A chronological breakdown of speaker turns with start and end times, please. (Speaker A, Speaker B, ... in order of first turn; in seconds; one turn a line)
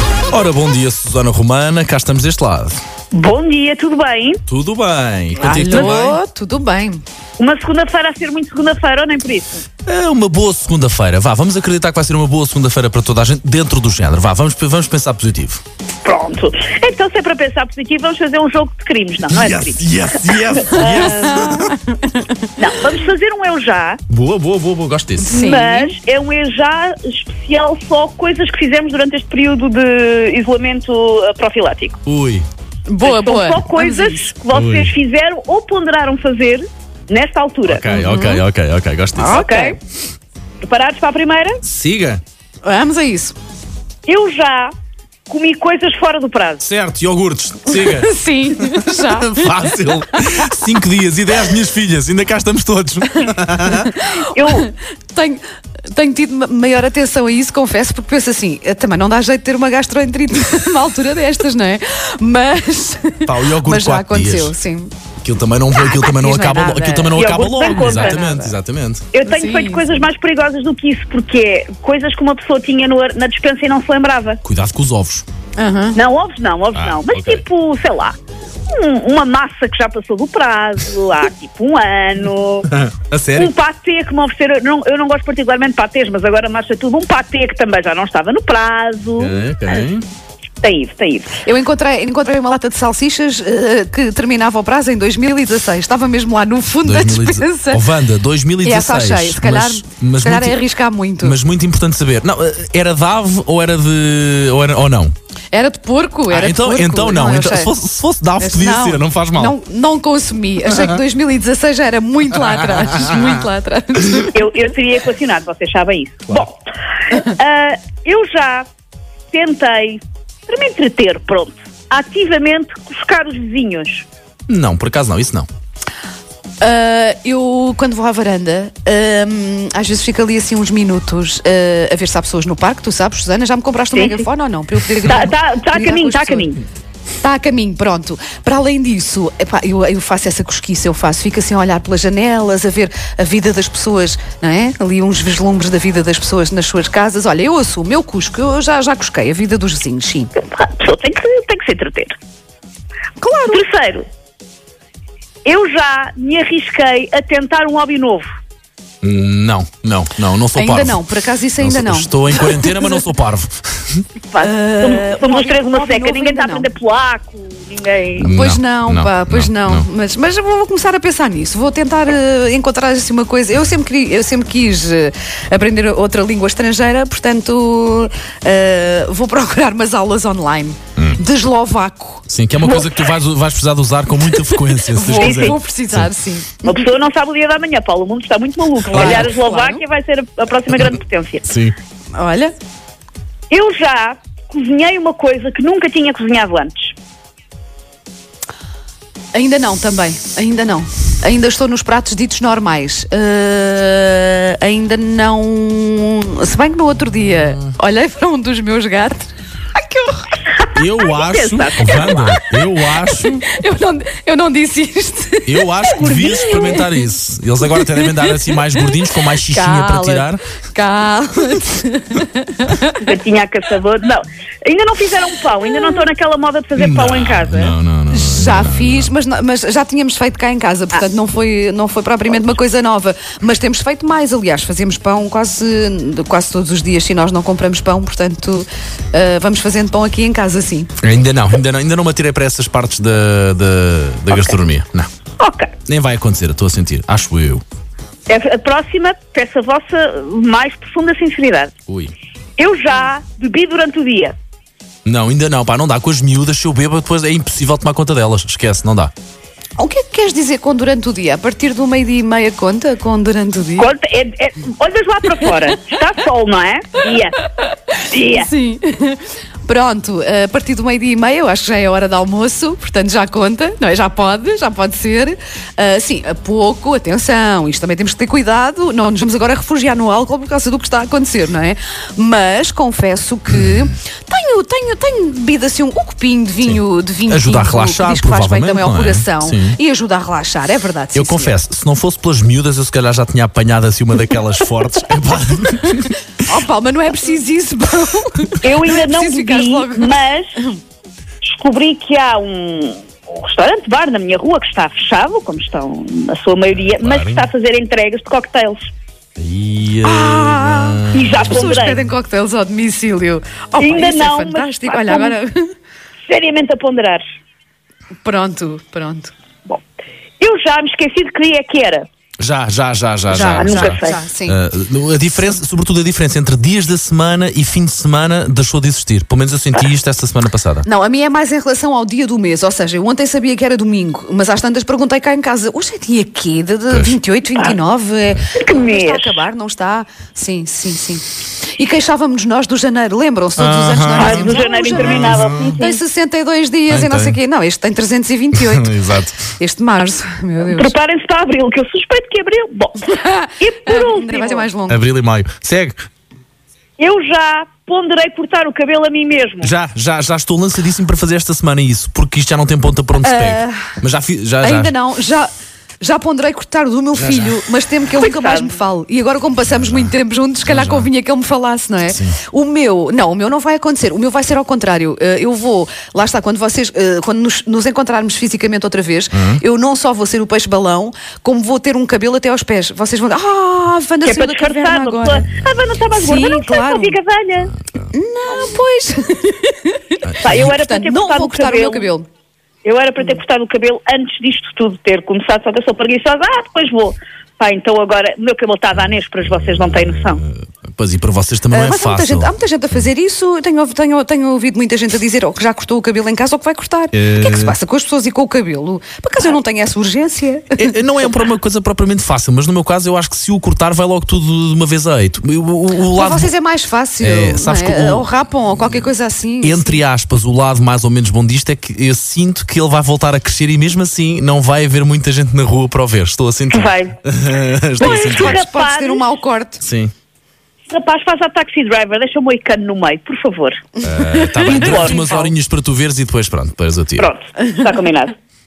Speaker A: 0.3-2.8
Speaker B: 3.1-4.4
Speaker A: 4.5-6.2
Speaker C: 5.4-7.0
Speaker B: 5.7-6.0
Speaker B: 7.4-9.7
Speaker A: 9.8-15.6
Speaker B: 16.0-21.7
Speaker A: 19.3-21.7
Speaker C: 21.3-22.3
Speaker B: 22.6-24.0
Speaker A: 24.1-25.3
Speaker C: 25.2-25.9
Speaker B: 25.3-32.0
Speaker A: 32.0-32.5
Speaker C: 32.9-34.3
Speaker B: 33.0-37.9
Speaker A: 34.5-34.9
Speaker A: 37.7-39.4
Speaker C: 37.9-38.4
Speaker C: 39.2-39.8
Speaker B: 39.2-39.8
Speaker B: 40.6-41.6
Speaker A: 41.6-42.2
Speaker C: 42.6-43.3
Speaker B: 44.1-44.7
Speaker B: 45.3-46.6
Speaker A: 46.6-53.9
Speaker C: 47.7-49.6
Speaker C: 53.7-64.9
Speaker B: 54.3-54.7
Speaker A: 63.2-64.5
Speaker A: 65.2-69.1
Speaker C: 65.7-68.5
Speaker B: 67.1-68.2
Speaker B: 69.1-74.4
Speaker C: 69.2-70.0
Speaker A: 74.4-75.2
Speaker C: 75.6-76.0
Speaker B: 75.9-78.2
Speaker A: 76.7-77.4
Speaker B: 78.7-82.7
Speaker A: 82.7-83.5
Speaker B: 83.3-89.8
Speaker A: 89.2-90.1
Speaker B: 90.6-91.4
Speaker C: 91.4-97.8
Speaker A: 96.8-100.6
Speaker C: 98.6-101.4
Speaker A: 101.2-105.1
Speaker C: 105.5-107.7
Speaker A: 106.3-109.5
Speaker C: 108.4-114.4
Speaker B: 114.3-118.7
Speaker B: 119.3-124.0
Speaker A: 124.5-125.5
Speaker C: 126.6-136.5
Speaker B: 133.9-134.2
Speaker B: 135.0-136.6
Speaker C: 137.2-150.3
Speaker B: 150.3-152.1
Speaker C: 153.2-153.6
Speaker B: 153.5-154.1
Speaker B: 155.4-158.3
Speaker A: 159.0-161.0
Speaker C: 160.5-163.0
Speaker A: 161.6-164.0
Speaker B: 164.3-168.3
Speaker C: 164.4-166.7
Speaker A: 168.2-169.8
Speaker C: 168.3-182.2
Speaker A: 182.3-186.1
Speaker B: 182.6-183.1
Speaker C: 184.9-186.8
Speaker B: 185.2-185.6
Speaker B: 186.6-191.5
Speaker A: 188.9-189.3
Speaker C: 188.9-189.8
Speaker A: 191.5-191.8
Speaker C: 192.1-192.5
Speaker B: 193.5-196.9
Speaker C: 199.3-210.3
Speaker A: 210.7-213.4
Speaker B: 210.9-212.4
Speaker C: 212.1-216.9
Speaker A: 215.5-220.4
Speaker C: 217.6-218.9
Speaker C: 219.5-223.1
Speaker B: 223.0-227.7
Speaker A: 226.8-229.1
Speaker C: 228.1-240.9
Speaker A: 241.0-245.1
Speaker B: 245.4-245.7
Speaker A: 245.8-247.6
Speaker B: 248.3-251.7
Speaker A: 251.9-252.1
Speaker B: 252.6-254.3
Speaker A: 255.0-259.1
Speaker C: 259.8-263.9
Speaker B: 263.8-267.4
Speaker B: 268.0-268.5
Speaker C: 268.2-291.5
Speaker A: 286.6-289.8
Speaker A: 291.1-296.2
Speaker C: 296.4-300.8
Speaker B: 298.6-300.6
Speaker B: 301.4-308.9
Speaker A: 307.0-307.5
Speaker A: 309.4-311.8
Speaker C: 310.0-315.7
Speaker B: 311.1-312.0
Speaker B: 313.8-315.4
Speaker B: 316.2-317.2
Speaker C: 318.2-319.3
Speaker B: 320.4-322.1
Speaker A: 322.4-330.9
Speaker C: 323.3-324.6
Speaker B: 323.4-324.2
Speaker C: 330.8-350.9
Speaker A: 336.9-337.1
Speaker B: 338.5-339.4
Speaker A: 343.6-345.7
Speaker B: 344.1-346.0
Speaker A: 346.9-347.4
Speaker A: 348.5-349.4
Speaker B: 350.6-354.7
Speaker C: 353.1-355.0
Speaker A: 354.9-356.1
Speaker B: 357.0-359.7
Speaker A: 359.6-364.9
Speaker C: 363.2-364.0
Speaker C: 364.6-385.4
Speaker A: 367.1-367.6
Speaker B: 368.2-368.7
Speaker A: 369.8-370.1
Speaker A: 370.6-371.1
Speaker A: 372.1-372.4
Speaker A: 379.3-379.6
Speaker B: 384.2-387.7
Speaker C: 386.2-387.2
Speaker C: 388.1-392.3
Speaker A: 390.2-390.7
Speaker B: 390.4-392.1
Speaker B: 392.8-400.4
Speaker A: 398.9-402.6
Speaker C: 401.7-411.0
Speaker A: 407.1-407.8
Speaker A: 410.8-416.5
Speaker C: 416.1-420.0
Speaker A: 417.2-419.1
Speaker A: 419.6-428.6
Speaker B: 426.7-427.2
Speaker B: 428.0-429.3
Speaker C: 428.0-429.8
Speaker A: 429.8-430.1
Speaker B: 430.9-433.9
Speaker A: 434.0-437.3
Speaker C: 434.1-435.4
Speaker B: 434.6-435.4
Speaker B: 437.2-438.4